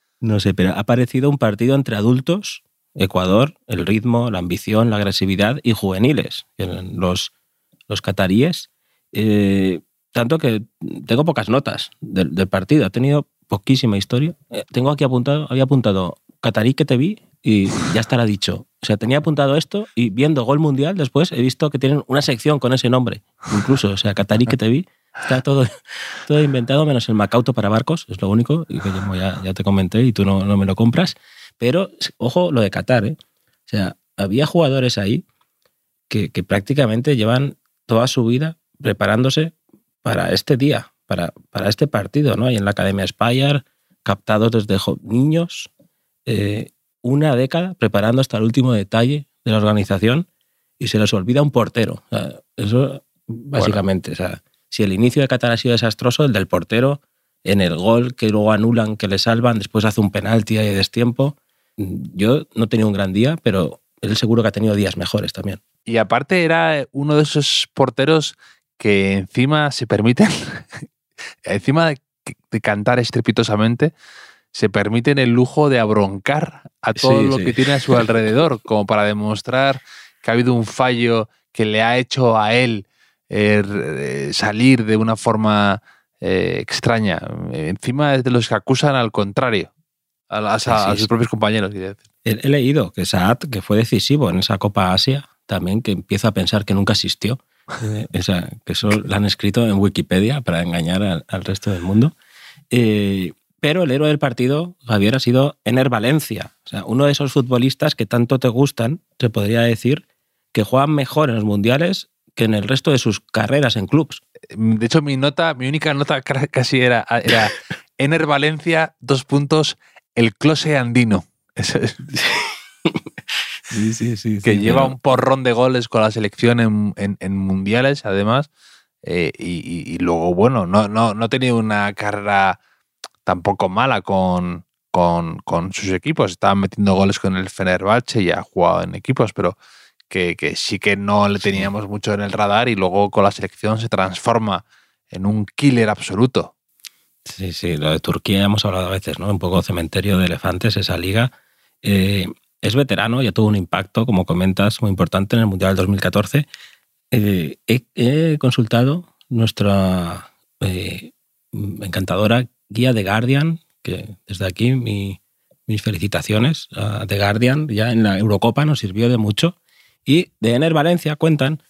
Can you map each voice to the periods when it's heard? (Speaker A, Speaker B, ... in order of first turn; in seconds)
Speaker A: 0.2-7.3, 7.9-33.2, 33.7-35.2, 36.1-45.7, 46.3-50.3, 50.8-65.6, 77.0-78.0, 90.7-91.1, 92.2-102.2, 102.7-114.2, 123.7-125.0, 147.2-151.3, 151.8-156.5, 157.1-171.6
Speaker B: 53.5-53.8, 65.9-70.8, 71.5-73.9, 74.5-89.7, 90.3-92.0, 114.5-122.2, 124.4-128.5, 129.0-132.6, 133.2-139.6, 140.1-146.5